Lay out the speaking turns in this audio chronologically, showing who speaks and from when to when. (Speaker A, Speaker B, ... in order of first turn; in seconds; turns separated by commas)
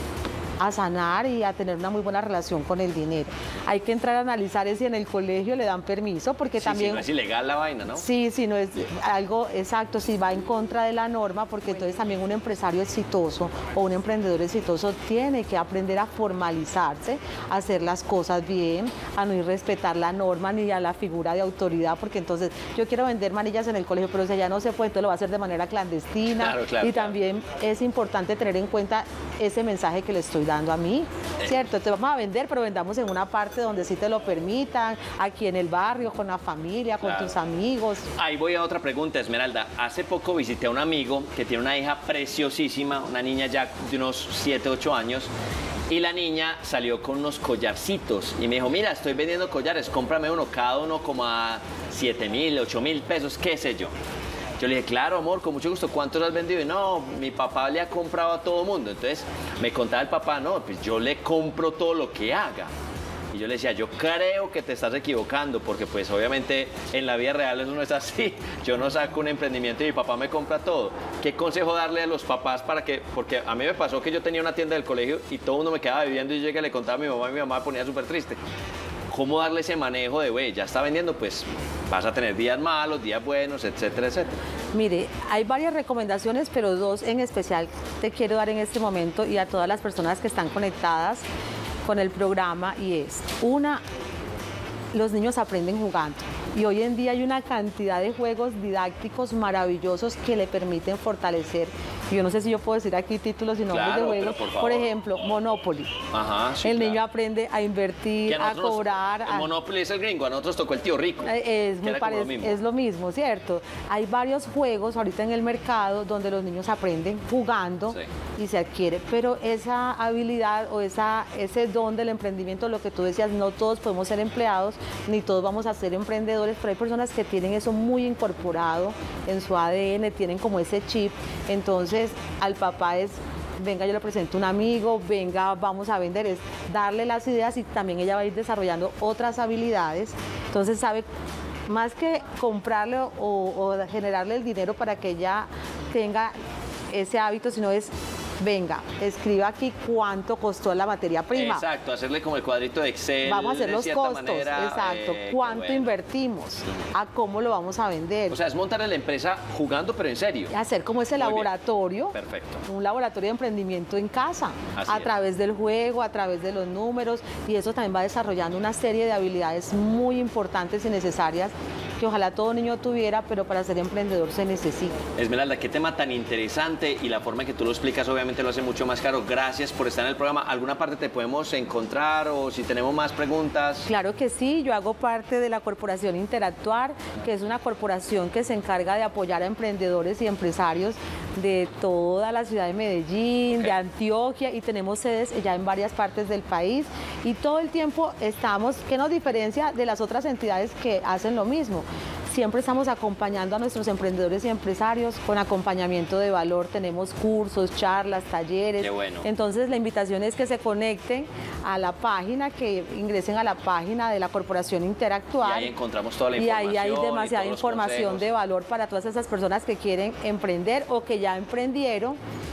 Speaker A: 0.6-7.1, Speaker B: 6.6-8.0, Speaker A: 7.9-38.1, Speaker B: 26.4-27.1, Speaker B: 37.0-37.3, Speaker B: 38.1-45.3, Speaker B: 45.9-53.9, Speaker B: 54.6-62.7, Speaker B: 63.3-78.4, Speaker B: 79.1-84.4, Speaker A: 84.7-91.2, Speaker A: 91.8-93.8, Speaker A: 94.9-105.9, Speaker B: 103.7-104.9, Speaker B: 106.1-107.0, Speaker A: 106.6-109.5, Speaker B: 108.3-112.6, Speaker A: 111.2-141.1, Speaker A: 141.7-146.3, Speaker A: 146.9-151.6, Speaker B: 151.3-155.9, Speaker A: 153.2-158.4, Speaker B: 158.3-160.5, Speaker A: 160.5-162.1, Speaker B: 161.2-161.5, Speaker B: 162.1-162.6, Speaker A: 162.7-175.0, Speaker B: 164.7-165.1, Speaker B: 175.2-183.9, Speaker A: 183.8-215.7, Speaker B: 208.8-209.3, Speaker B: 215.4-218.3, Speaker A: 216.3-222.2